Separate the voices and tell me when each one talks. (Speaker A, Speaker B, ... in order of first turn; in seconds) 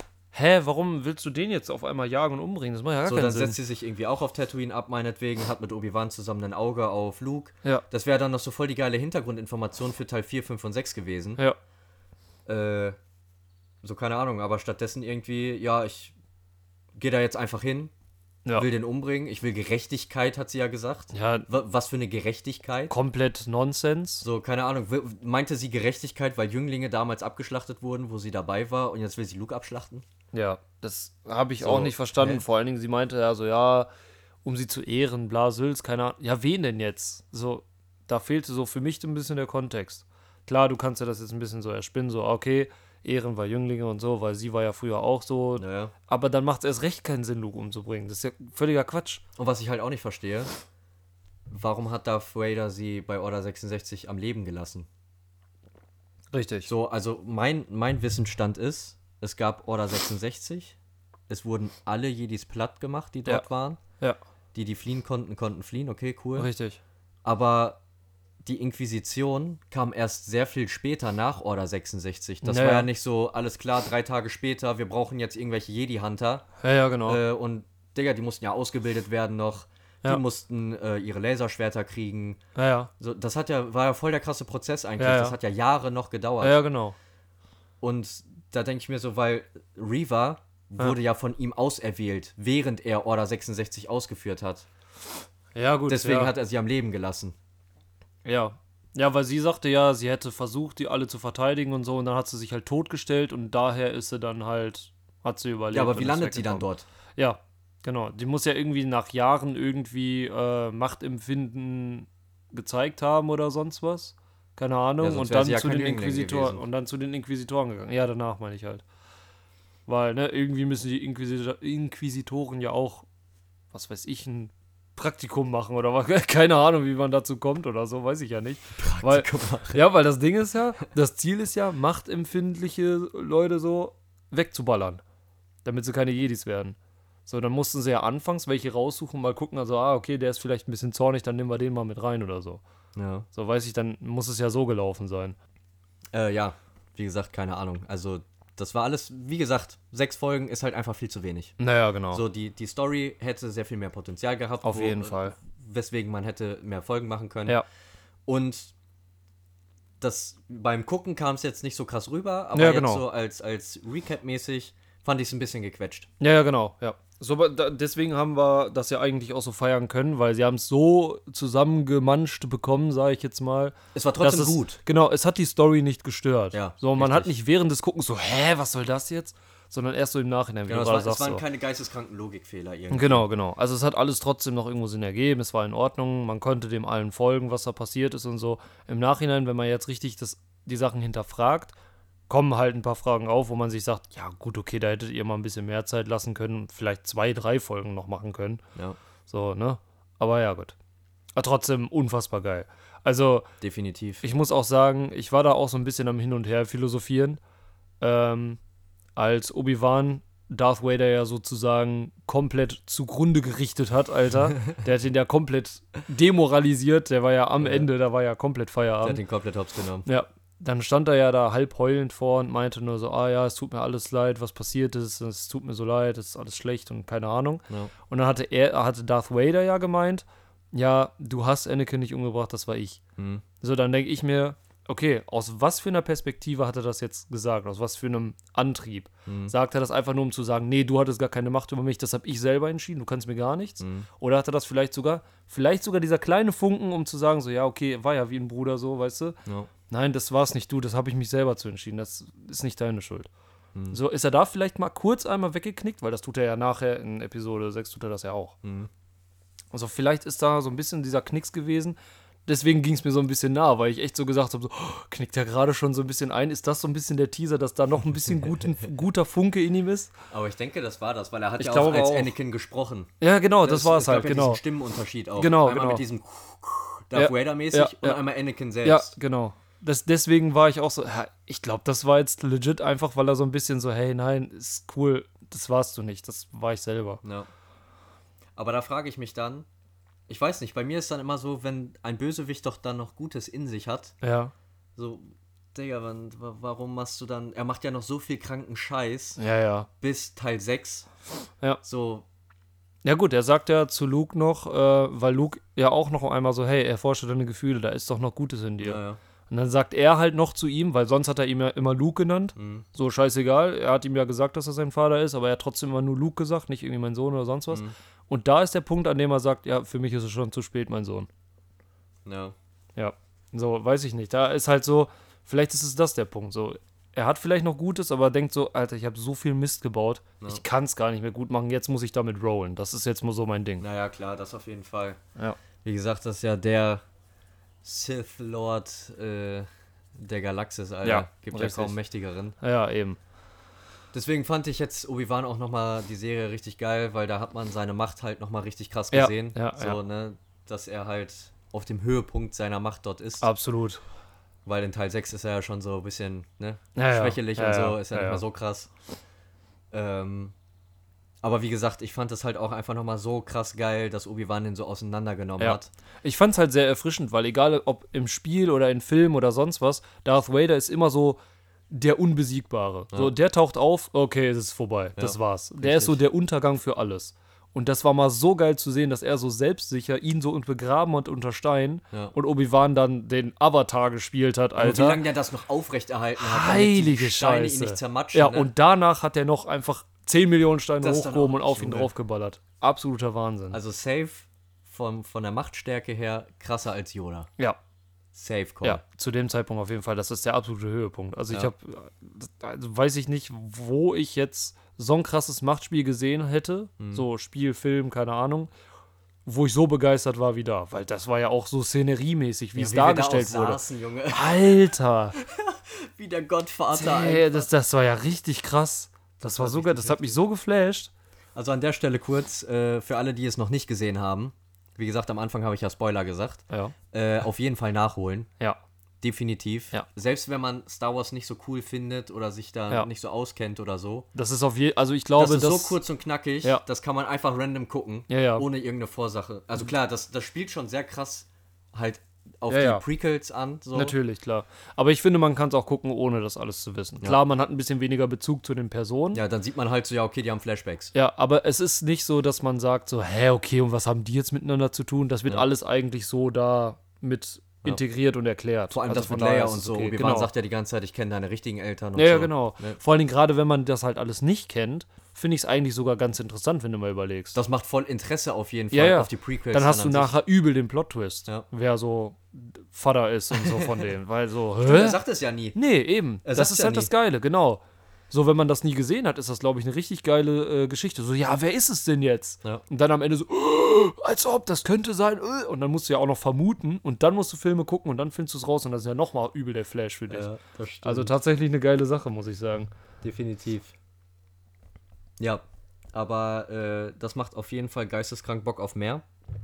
Speaker A: 0.3-3.6, 21.1-21.5, 22.9-24.2, 30.3-33.9, 34.4-49.2, 56.3-56.7, 66.3-66.8, 72.4-72.9, 76.6-77.2, 82.5-82.9, 85.0-85.3, 86.4-87.0, 95.5-96.3, 98.2-118.8, 119.9-123.0, 123.7-135.0, 135.6-142.6, 143.3-145.3, 151.6-152.2, 154.6-155.3, 162.5-163.0, 166.2-181.4, 182.9-191.7, 192.3-198.6, 199.3-200.7, 201.3-203.5, 204.2-207.4, 208.0-208.6, 209.2-219.2, 220.1-233.0, 233.6-249.4, 249.9-253.3, 253.9-258.5, 259.7-270.1, 271.6-272.3, 273.2-274.6, 275.4-276.0, 277.1-278.2, 278.8-287.2, 294.2-294.5, 299.4-299.9, 303.0-321.3, 322.9-333.8, 341.0-341.9, 342.6-343.2, 349.1-350.0, 353.4-354.0, 356.9-358.4, 365.6-371.4, 371.9-385.2, 386.4-393.8, 398.8-408.7, 409.4-415.4, 416.9-421.1, 434.3-436.0, 438.3-438.6, 442.7-443.0, 443.9-449.4, 451.1-460.5, 462.1-467.6, 468.9-475.2, 475.7-490.5, 491.0-492.9
Speaker B: 3.0-11.4, 12.4-13.0, 13.8-16.1, 16.9-17.9, 18.5-22.9, 24.2-30.0, 31.6-32.4, 45.6-45.9, 49.4-50.5, 51.5-54.9, 56.6-60.8, 61.3-63.8, 64.5-66.5, 67.2-67.8, 68.4-76.5, 77.0-82.4, 83.0-86.6, 87.8-94.7, 95.9-97.3, 105.7-106.8, 115.0-116.6, 128.8-129.8, 142.9-143.3, 146.1-151.6, 152.1-157.6, 158.2-158.7, 160.0-166.1, 173.9-174.8, 176.5-177.3, 180.7-183.2, 203.6-204.2, 217.6-217.9, 219.0-220.1, 233.2-233.4, 239.2-239.5, 243.8-244.1, 253.7-254.0, 258.6-258.9, 270.3-273.1, 273.6-279.1, 287.2-287.5, 288.6-289.6, 290.3-294.1, 294.9-299.4, 300.0-301.1, 301.8-302.2, 308.8-309.2, 312.6-312.9, 322.2-322.5, 333.8-335.2, 335.8-337.0, 337.8-342.6, 344.1-353.5, 354.6-358.9, 359.9-360.5, 361.4-365.9, 375.1-376.2, 384.8-388.7, 391.0-392.1, 393.7-397.5, 398.3-399.0, 407.0-407.2, 412.7-414.9, 415.4-417.7, 419.4-420.4, 421.5-428.5, 429.2-434.3, 435.4-444.1, 449.3-451.1, 458.9-463.0, 467.5-470.3, 473.5-474.1, 474.8-475.8, 476.4-477.1, 490.3-491.3, 493.2-493.9, 495.4-499.2